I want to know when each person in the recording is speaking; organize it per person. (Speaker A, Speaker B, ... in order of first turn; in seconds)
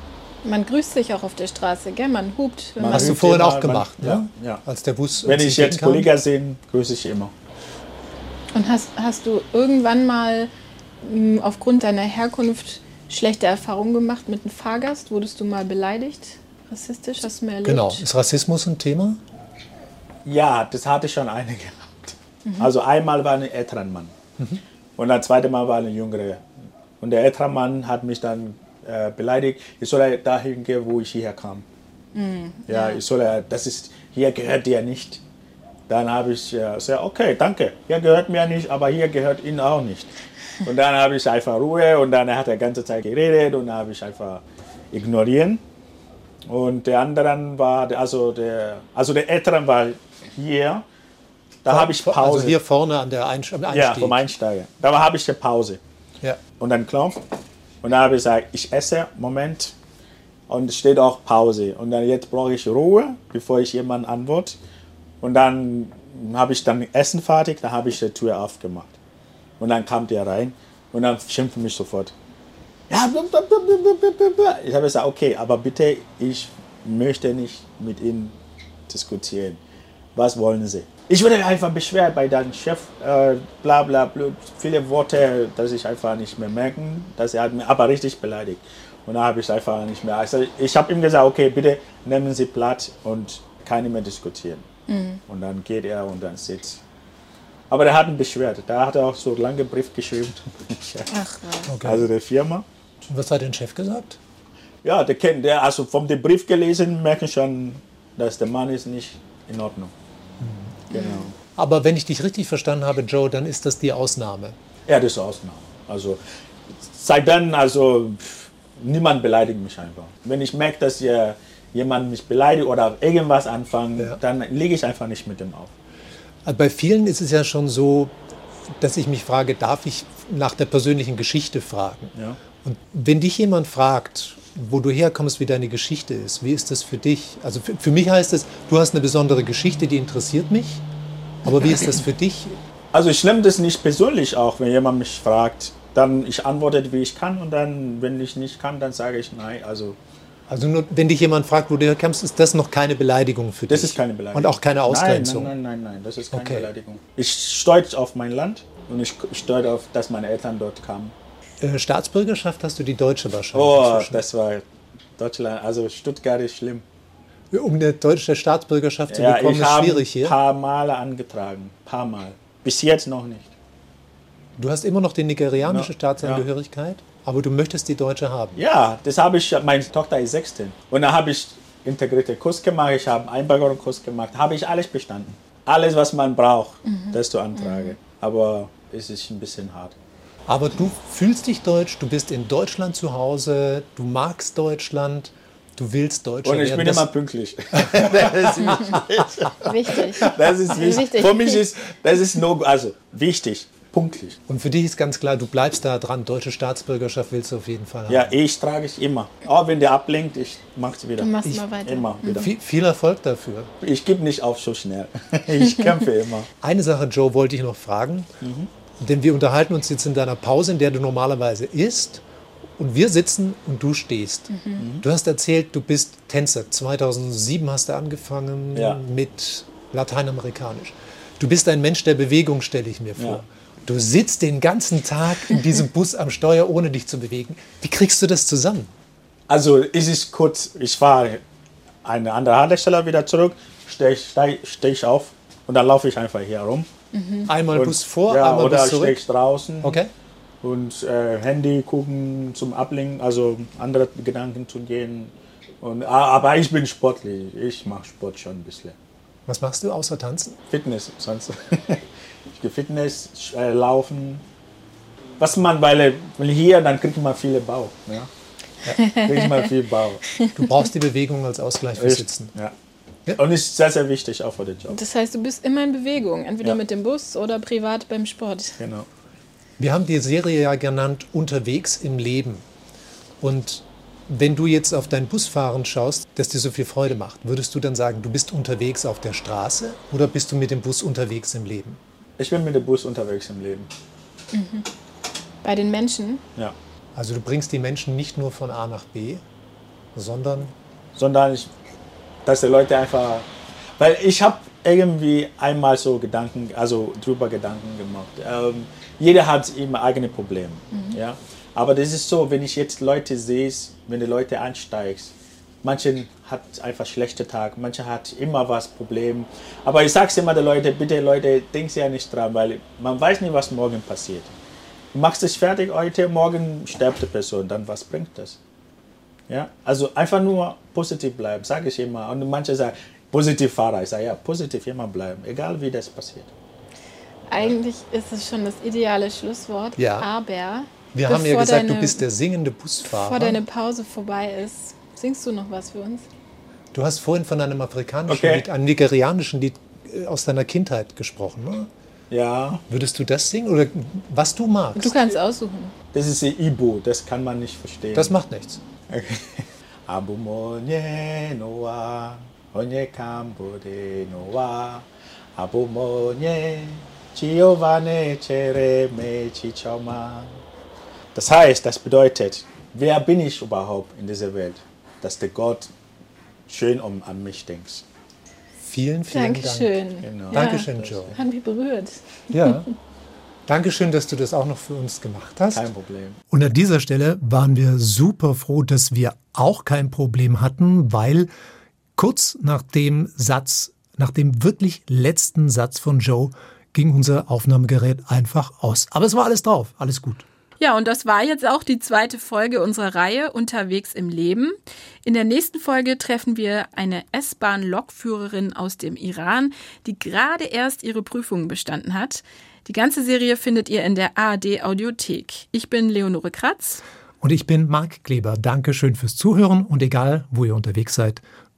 Speaker A: 0.4-3.1, 8.5-10.5, 11.0-18.0, 22.4-22.7, 32.1-33.0, 94.9-95.2, 101.1-101.7, 110.9-111.3, 186.8-187.9, 199.7-201.6, 211.2-212.4, 224.5-224.8, 247.1-247.5, 269.0-269.6, 274.9-278.8, 294.5-294.9, 295.6-296.4, 337.5-342.2, 343.0-346.2, 354.9-355.9, 379.3-382.8, 400.8-417.0
Speaker B: 2.8-4.6, 5.2-7.3, 20.2-24.1, 25.0-26.4, 27.0-31.6, 32.7-35.2, 35.9-45.6, 46.5-50.8, 51.6-52.6, 53.7-55.8, 56.6-57.2, 57.8-59.7, 60.5-64.6, 65.2-69.0, 69.6-72.1, 72.9-78.4, 78.9-79.6, 80.1-94.7, 95.3-96.8, 97.7-101.1, 101.8-102.6, 104.8-109.9, 110.9-111.3, 114.8-116.2, 116.8-125.7, 141.5-142.0, 142.9-150.0, 153.7-161.1, 163.5-164.6, 165.2-166.8, 169.1-173.5, 175.6-176.5, 178.6-190.0, 196.4-204.4, 208.1-211.3, 211.8-212.5, 213.8-216.5, 218.4-218.7, 224.8-225.0, 228.7-229.0, 233.2-233.4, 239.5-241.4, 242.0-246.9, 247.7-250.0, 250.6-258.9, 260.7-264.4, 265.4-268.3, 269.1-270.2, 272.0-272.7, 273.4-275.0, 278.8-279.1, 292.4-293.9, 301.1-301.7, 302.4-324.6, 325.1-328.6, 329.5-336.5, 348.3-348.7, 352.3-352.8, 356.1-358.4, 359.1-370.6, 371.3-375.9, 376.7-378.0, 380.2-381.4, 385.7-386.4
Speaker C: 2.9-6.1, 17.6-19.2, 51.6-54.2, 101.7-102.1, 103.1-104.2, 110.4-110.8, 111.5-114.5, 126.5-128.2, 128.8-140.8, 141.4-142.6, 150.5-155.5, 156.3-156.7, 161.6-164.2, 167.5-170.3, 174.6-178.6, 190.5-197.1, 197.7-199.2, 204.5-208.3, 212.2-213.7, 216.6-218.3, 219.0-222.2, 222.8-238.9, 247.5-249.2, 249.8-250.1, 259.5-260.6, 270.5-272.5, 279.8-282.6, 283.4-292.0, 297.1-299.4, 300.1-300.7, 340.0-340.2, 341.1-343.6, 346.9-351.9, 352.9-355.3, 358.1-358.8, 378.8-380.0, 380.5-381.3, 382.5-382.9, 383.7-385.9, 386.5-391.5, 392.1-400.4, 417.4-421.4